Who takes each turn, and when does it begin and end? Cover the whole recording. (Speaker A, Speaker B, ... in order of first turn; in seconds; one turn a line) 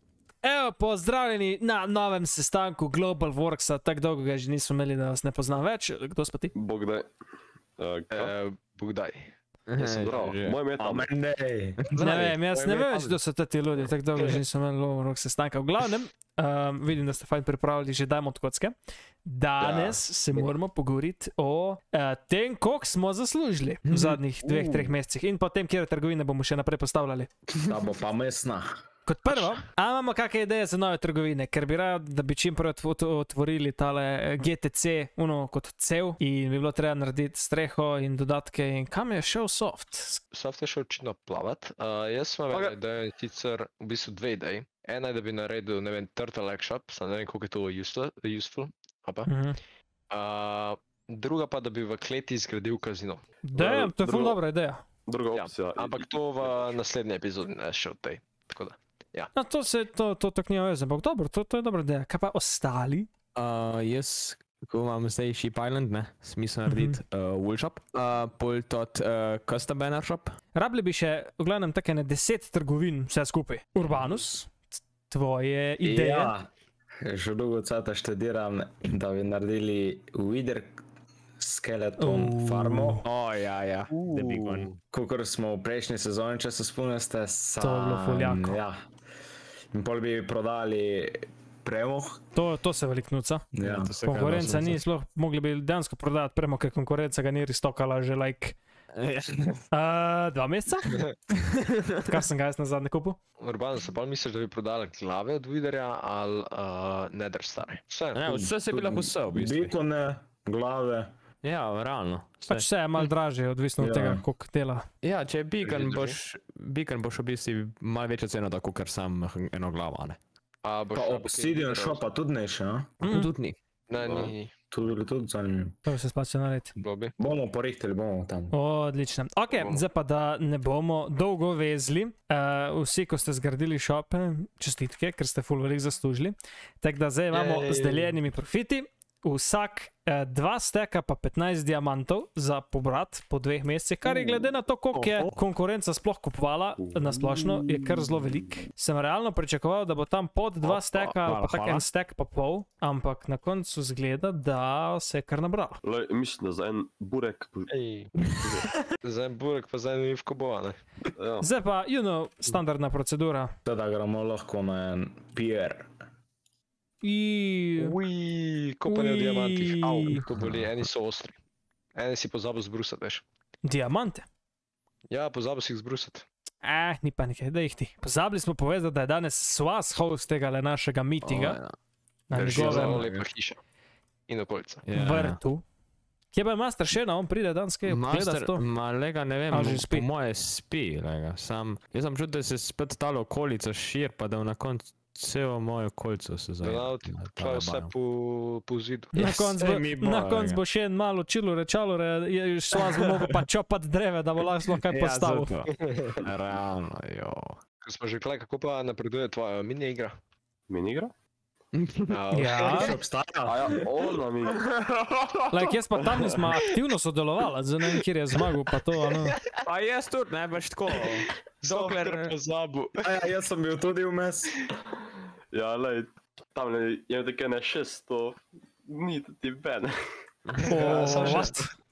Speaker A: 0.4-6.5
Speaker B: 6.5-7.1
Speaker B: 7.8-8.3
Speaker C: 8.1-10.3
Speaker D: 9.7-10.6
Speaker B: 9.9-11.1
Speaker E: 10.8-12.2
Speaker D: 11.8-12.2
Speaker A: 12.0-18.7
Speaker A: 19.2-27.3
Speaker C: 19.6-20.4
Speaker D: 23.9-24.2
Speaker E: 27.6-28.7
Speaker A: 29.1-40.2
Speaker C: 40.3-49.3
Speaker A: 49.3-49.6
Speaker C: 50.1-53.2
Speaker A: 53.4-54.8
Speaker B: 53.5-54.4
Speaker B: 55.1-56.7
Speaker C: 55.3-59.3
Speaker A: 59.3-63.1
Speaker D: 63.3-70.3
Speaker A: 66.7-67.0
Speaker A: 70.5-76.3
Speaker E: 75.8-76.5
Speaker E: 77.0-80.8
Speaker E: 81.4-83.0
Speaker A: 82.0-83.0
Speaker D: 83.0-84.7
Speaker C: 84.1-84.6
Speaker E: 84.8-88.8
Speaker A: 87.6-88.6
Speaker E: 89.7-92.2
Speaker A: 92.3-93.5
Speaker E: 93.5-93.9
Speaker D: 93.6-94.8
Speaker A: 94.0-98.6
Speaker D: 98.9-99.6
Speaker A: 99.7-101.0
Speaker D: 101.6-101.9
Speaker A: 102.0-103.2
Speaker C: 103.4-108.2
Speaker D: 108.1-109.7
Speaker E: 108.2-111.1
Speaker D: 111.4-112.7
Speaker A: 112.5-114.8
Speaker E: 113.8-114.2
Speaker D: 115.0-120.2
Speaker C: 115.6-116.2
Speaker C: 120.6-122.0
Speaker E: 120.9-123.0
Speaker A: 123.0-123.3
Speaker D: 123.0-123.6
Speaker C: 123.9-124.5
Speaker B: 124.0-124.3
Speaker E: 124.7-125.8
Speaker A: 125.8-126.8
Speaker C: 126.8-127.1
Speaker E: 127.2-128.5
Speaker A: 128.5-155.8
Speaker C: 129.5-129.8
Speaker C: 137.3-138.1
Speaker D: 144.9-145.4
Speaker B: 146.8-147.8
Speaker C: 150.7-151.0
Speaker D: 151.2-151.8
Speaker B: 155.8-157.7
Speaker C: 157.7-158.4
Speaker B: 158.2-158.7
Speaker C: 159.0-160.8
Speaker B: 161.2-161.5
Speaker A: 161.4-163.5
Speaker E: 163.6-165.9
Speaker A: 167.0-167.9
Speaker C: 167.8-171.4
Speaker A: 168.9-170.2
Speaker E: 170.3-170.8
Speaker C: 171.9-173.2
Speaker A: 173.6-174.2
Speaker C: 175.1-176.2
Speaker A: 176.6-181.6
Speaker D: 181.2-181.7
Speaker A: 182.3-183.1
Speaker C: 182.3-183.6
Speaker D: 182.5-183.2
Speaker C: 184.3-184.8
Speaker D: 184.8-185.4
Speaker A: 184.9-185.6
Speaker A: 186.3-188.6
Speaker D: 187.8-197.9
Speaker A: 189.5-190.1
Speaker C: 196.6-199.1
Speaker A: 199.1-205.6
Speaker D: 199.2-200.6
Speaker D: 204.8-207.6
Speaker C: 205.9-206.2
Speaker C: 207.8-210.1
Speaker B: 210.7-211.1
Speaker D: 211.8-212.2
Speaker C: 212.1-212.9
Speaker A: 212.3-212.9
Speaker E: 212.7-213.8
Speaker B: 213.4-214.6
Speaker D: 214.6-215.5
Speaker A: 215.5-219.3
Speaker B: 215.9-216.4
Speaker D: 219.6-222.3
Speaker C: 221.6-223.0
Speaker E: 223.0-224.5
Speaker B: 225.5-229.9
Speaker C: 230.6-231.7
Speaker B: 230.6-231.5
Speaker A: 230.7-231.7